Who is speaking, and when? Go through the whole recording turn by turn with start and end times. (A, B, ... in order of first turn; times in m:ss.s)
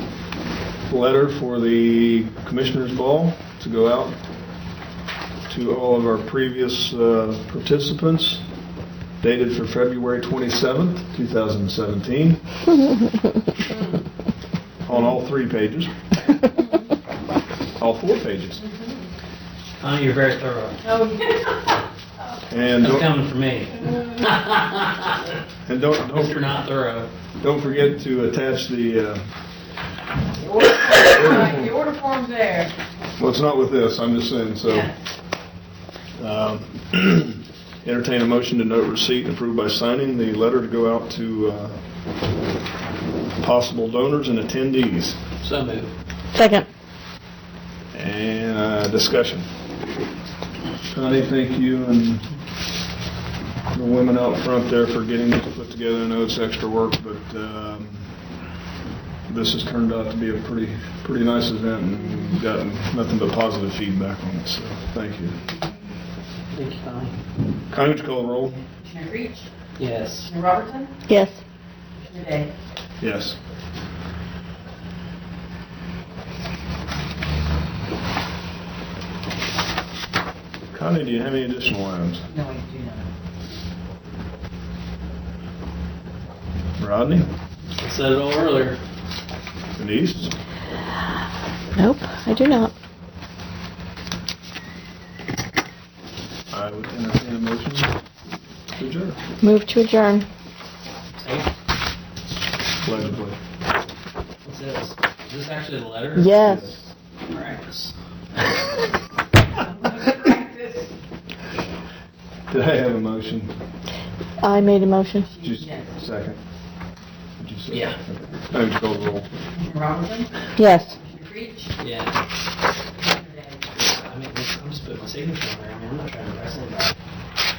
0:00.9-0:04.2 A
0:05.5-0:08.4 A
0:09.2-0:12.4 A
0:14.8-0:15.9 A
0:17.8-0:18.6 A
0:19.8-0:20.9 B
0:20.9-0:21.3 C
0:22.5-0:23.2 A
0:22.8-0:25.1 B
0:25.6-0:26.5 A
0:26.1-0:27.1 B
0:27.4-0:29.2 A
0:30.6-0:32.7 C
0:31.0-0:31.8 A
0:33.2-0:34.9 A
0:36.2-0:41.8 A
0:43.4-0:45.2 A
0:45.4-0:45.9 B
0:46.3-0:46.7 D
0:47.9-0:49.5 A
0:50.9-0:52.3 A
0:53.7-0:58.1 A
0:59.3-1:05.4 A
1:06.5-1:07.2 B
1:07.7-1:08.6 A
1:08.8-1:09.5 C
1:09.8-1:10.3 B
1:10.3-1:10.9 C
1:11.1-1:11.4 D
1:12.1-1:12.5 C
1:13.0-1:13.4 A
1:20.7-1:22.3 A
1:22.3-1:23.0 C
1:26.8-1:27.3 A
1:27.8-1:28.8 B
1:29.8-1:30.3 A
1:31.8-1:32.7 D
1:36.5-1:37.9 A
1:38.7-1:39.2 A
1:39.4-1:40.3 D
1:41.2-1:41.5 B
1:42.8-1:43.4 A
1:44.4-1:46.3 B
1:46.2-1:46.7 D
1:46.4-1:46.8 A
1:47.3-1:47.9 B
1:49.8-1:50.9 C
1:52.5-1:53.5 A
1:54.4-1:55.3 D
1:55.4-1:55.9 C
1:55.4-1:56.4 A
1:57.4-1:59.3 A
1:57.7-1:58.0 B
1:59.6-2:00.3 C
2:00.6-2:01.0 D
2:01.0-2:01.7 C
2:01.8-2:02.2 B
2:03.2-2:03.5 C
2:03.7-2:06.9 B